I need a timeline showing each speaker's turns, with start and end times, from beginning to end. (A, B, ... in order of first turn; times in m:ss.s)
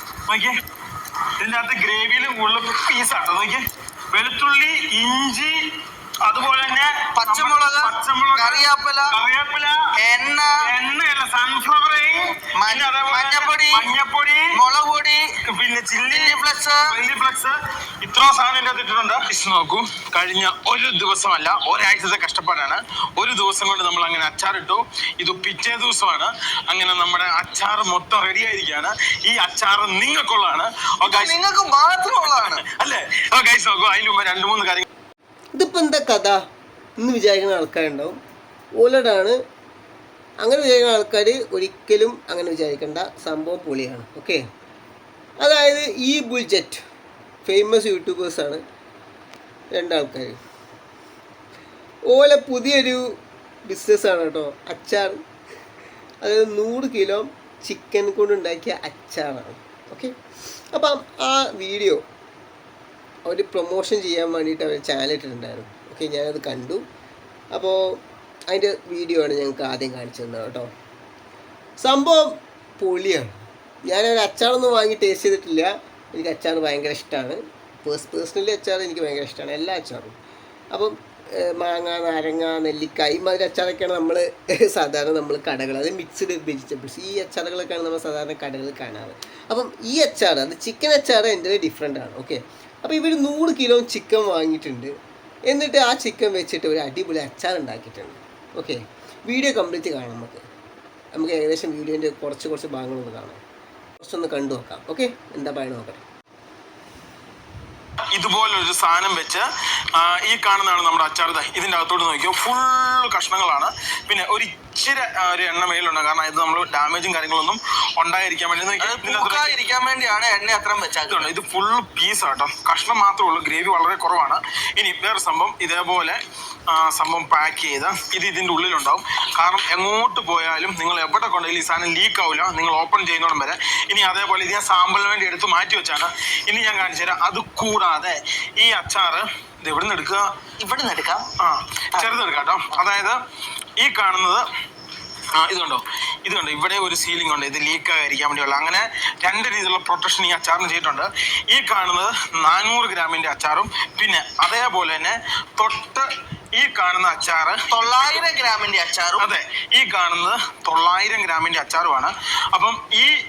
0:00.3-0:00.6 A
0:01.4-0:05.6 A
0:06.2-0:09.9 A
0:07.2-0:09.2 B
0:10.0-0:10.7 B
0:10.6-0:14.6 A
0:12.5-0:13.9 B
0:14.5-0:15.4 B
0:15.4-0:31.4 A
0:16.1-0:17.0 B
0:31.0-0:32.6 B
0:32.2-0:34.8 A
0:35.6-0:36.4 C
0:37.0-0:38.2 C
0:38.8-0:39.4 C
0:40.4-0:44.4 C
0:45.4-0:46.8 C
0:47.4-0:48.6 C
0:49.8-0:50.4 C
0:52.1-0:53.0 C
0:53.7-0:55.2 C
0:56.2-1:00.1 C
1:00.7-1:02.0 C
1:03.3-1:06.8 C
1:07.5-1:08.0 C
1:08.5-1:10.7 C
1:11.8-1:13.3 C
1:13.9-1:20.2 C
1:20.7-1:34.9 C
1:35.5-1:40.4 C
1:41.1-1:43.4 C
1:44.0-1:46.0 C
1:48.1-1:49.4 A
1:50.0-1:59.6 A
1:58.8-2:01.3 B
2:01.1-2:06.2 A
2:06.7-2:20.3 A
2:20.6-2:21.3 B
2:21.4-2:23.2 A
2:21.9-2:22.4 B
2:23.8-2:24.4 A
2:25.4-2:38.3 A
2:37.7-2:39.3 B
2:39.2-2:43.1 A